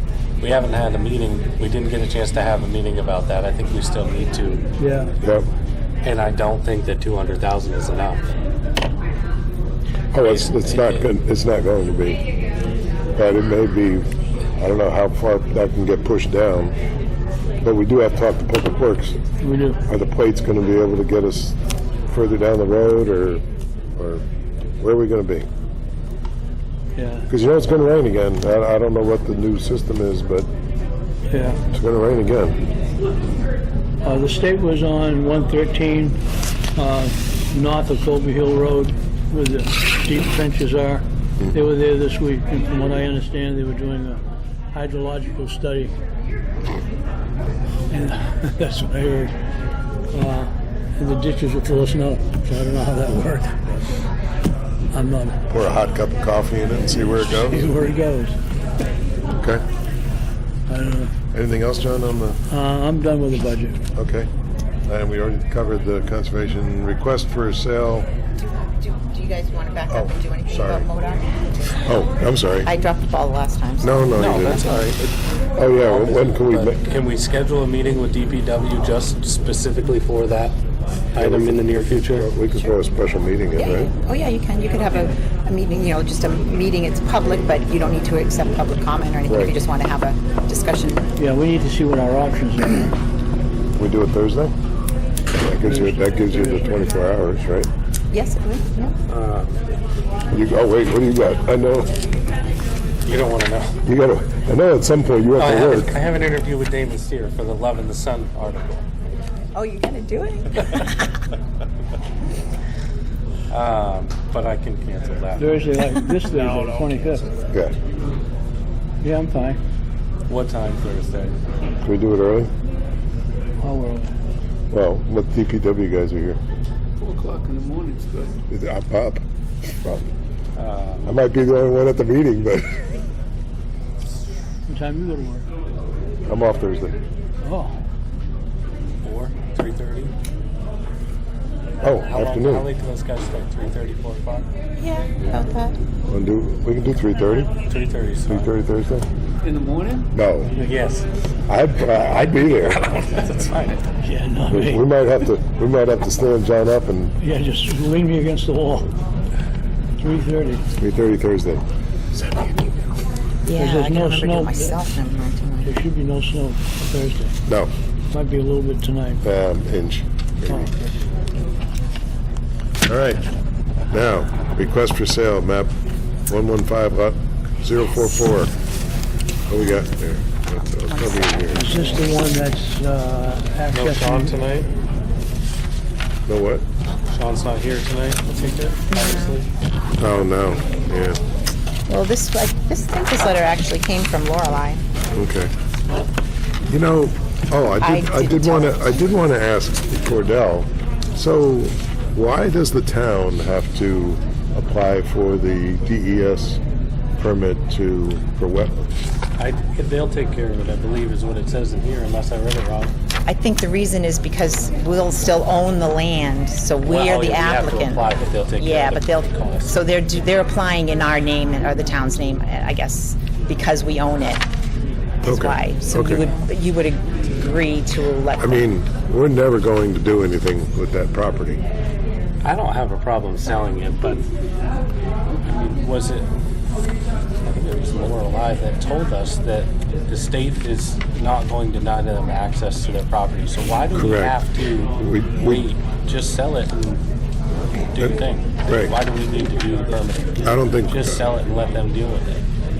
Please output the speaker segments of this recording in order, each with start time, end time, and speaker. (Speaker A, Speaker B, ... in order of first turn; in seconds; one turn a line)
Speaker A: 0.4-4.6
Speaker B: 4.8-5.1
Speaker C: 5.2-5.5
Speaker A: 6.0-8.3
Speaker C: 10.1-12.2
Speaker A: 10.2-11.0
Speaker C: 13.1-16.8
Speaker C: 17.6-19.1
Speaker B: 19.4-19.8
Speaker C: 19.9-21.6
Speaker C: 22.1-23.4
Speaker C: 23.9-24.2
Speaker C: 24.8-25.5
Speaker B: 27.0-27.3
Speaker C: 27.3-30.5
Speaker B: 31.3-31.6
Speaker C: 31.7-32.6
Speaker B: 34.0-36.2
Speaker B: 36.8-45.9
Speaker B: 47.9-49.3
Speaker B: 50.1-53.6
Speaker B: 54.9-55.4
Speaker C: 55.5-57.8
Speaker B: 57.2-58.4
Speaker C: 59.3-59.6
Speaker B: 60.7-61.1
Speaker C: 61.3-62.4
Speaker B: 62.5-63.8
Speaker C: 64.0-64.3
Speaker C: 64.9-68.1
Speaker D: 68.5-71.2
Speaker C: 69.9-70.8
Speaker C: 71.8-72.7
Speaker D: 72.6-74.5
Speaker C: 73.8-74.7
Speaker A: 74.2-75.1
Speaker C: 75.6-76.8
Speaker A: 75.7-80.6
Speaker A: 81.1-82.3
Speaker C: 81.1-83.9
Speaker D: 83.6-91.1
Speaker C: 89.3-89.5
Speaker B: 91.2-92.9
Speaker C: 93.8-94.5
Speaker C: 95.3-97.7
Speaker B: 95.6-96.6
Speaker D: 98.1-98.9
Speaker A: 99.1-99.5
Speaker C: 100.3-101.9
Speaker A: 103.1-103.8
Speaker C: 103.9-105.9
Speaker A: 105.4-108.8
Speaker D: 109.5-111.1
Speaker A: 113.5-115.6
Speaker B: 115.4-117.3
Speaker B: 119.0-119.6
Speaker A: 120.3-121.3
Speaker C: 121.8-122.5
Speaker B: 123.6-124.1
Speaker C: 124.7-126.4
Speaker E: 127.0-128.4
Speaker C: 128.5-129.2
Speaker A: 130.6-131.2
Speaker C: 131.1-132.9
Speaker B: 134.7-135.4
Speaker C: 136.3-137.0
Speaker B: 137.4-137.7
Speaker A: 139.0-140.1
Speaker C: 141.8-142.7
Speaker A: 142.0-144.5
Speaker D: 144.8-145.7
Speaker C: 146.1-147.5
Speaker A: 147.7-148.5
Speaker C: 148.3-149.1
Speaker E: 149.4-150.1
Speaker C: 150.1-150.5
Speaker A: 150.6-151.1
Speaker C: 151.5-152.8
Speaker A: 152.7-153.8
Speaker B: 154.0-154.8
Speaker C: 154.5-157.1
Speaker B: 157.2-159.0
Speaker B: 160.0-160.6
Speaker C: 160.8-161.6
Speaker D: 163.4-165.7
Speaker B: 163.5-164.8
Speaker B: 165.6-167.3
Speaker C: 167.4-167.7
Speaker B: 168.1-169.2
Speaker C: 169.2-170.7
Speaker B: 170.5-170.9
Speaker C: 172.8-173.2
Speaker C: 173.9-175.7
Speaker C: 176.3-178.5
Speaker C: 179.5-181.7
Speaker D: 180.9-182.1
Speaker B: 181.5-184.4
Speaker A: 183.7-184.7
Speaker C: 186.3-186.6
Speaker A: 187.1-189.5
Speaker D: 188.9-189.4
Speaker C: 190.0-191.2
Speaker D: 191.9-194.8
Speaker C: 195.1-195.5
Speaker C: 196.7-206.6
Speaker D: 197.8-199.1
Speaker C: 207.2-208.9
Speaker A: 209.4-212.9
Speaker D: 213.2-224.4
Speaker A: 216.8-219.8
Speaker C: 225.2-226.3
Speaker D: 225.2-228.7
Speaker C: 228.4-231.6
Speaker A: 232.4-234.3
Speaker A: 235.4-236.3
Speaker A: 237.4-247.0
Speaker C: 243.9-244.3
Speaker C: 245.0-245.7
Speaker A: 247.9-252.4
Speaker C: 248.0-248.9
Speaker C: 250.4-251.2